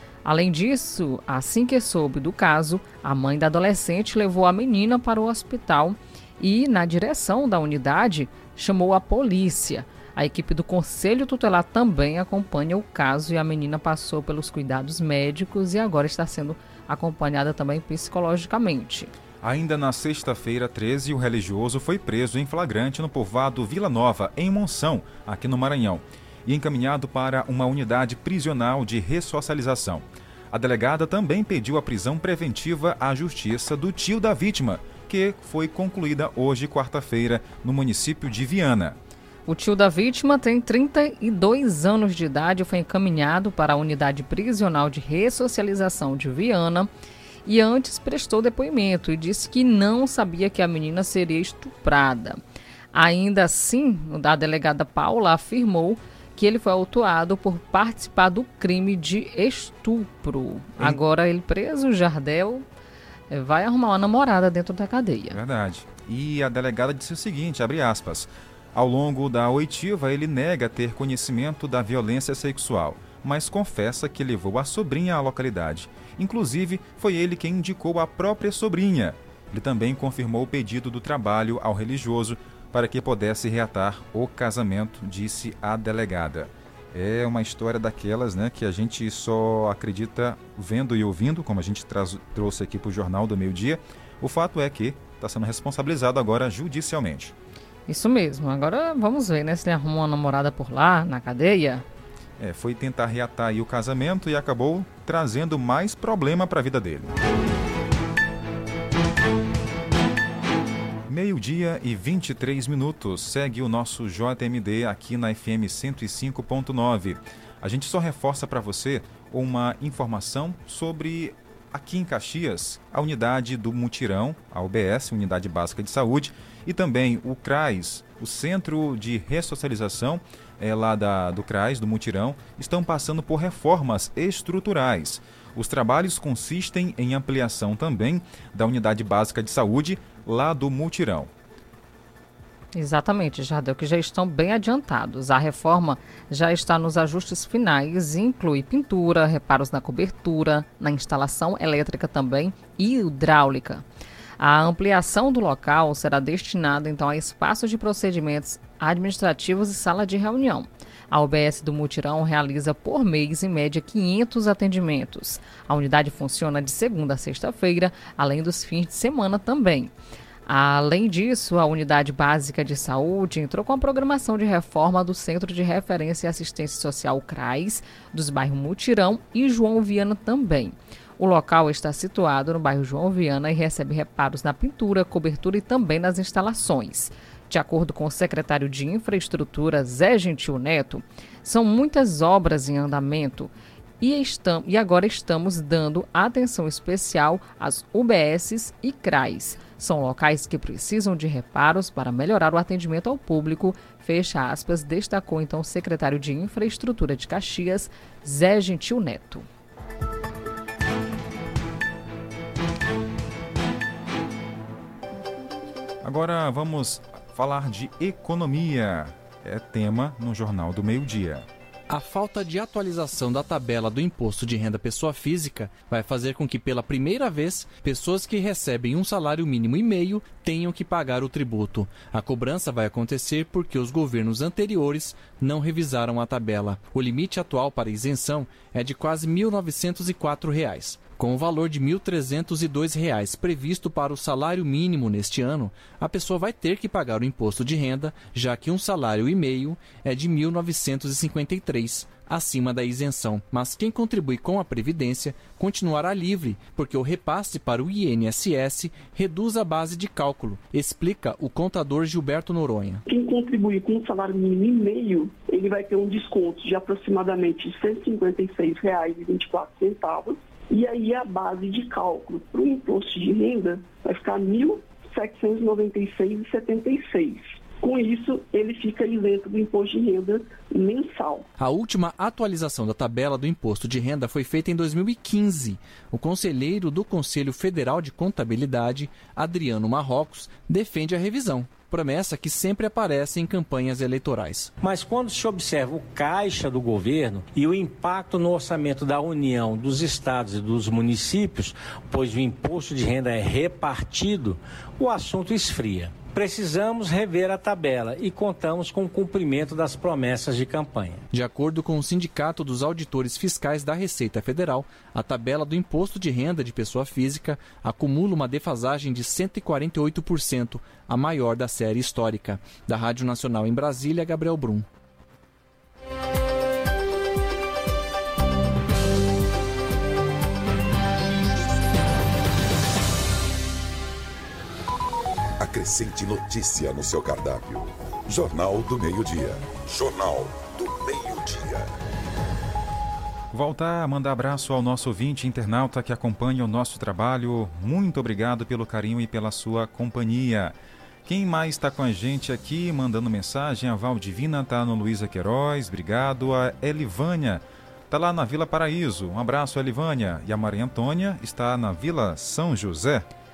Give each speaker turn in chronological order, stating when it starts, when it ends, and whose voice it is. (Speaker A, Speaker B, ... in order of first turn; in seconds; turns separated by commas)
Speaker A: 0.2-19.1, Speaker B: 19.4-39.0, Speaker A: 39.5-46.9, Speaker A: 47.5-52.4, Speaker A: 52.9-62.6, Speaker A: 63.3-65.4, Speaker B: 65.3-97.3, Speaker A: 97.9-101.8, Speaker B: 102.4-107.1, Speaker B: 111.1-141.3, Speaker A: 142.7-153.8, Speaker A: 154.4-169.9, Speaker A: 170.5-209.4, Speaker B: 216.0-221.5, Speaker C: 221.9-263.0, Speaker D: 263.1-281.5, Speaker C: 281.6-294.7, Speaker E: 294.8-311.2, Speaker C: 311.3-324.9, Speaker F: 335.6-342.0, Speaker B: 343.5-363.3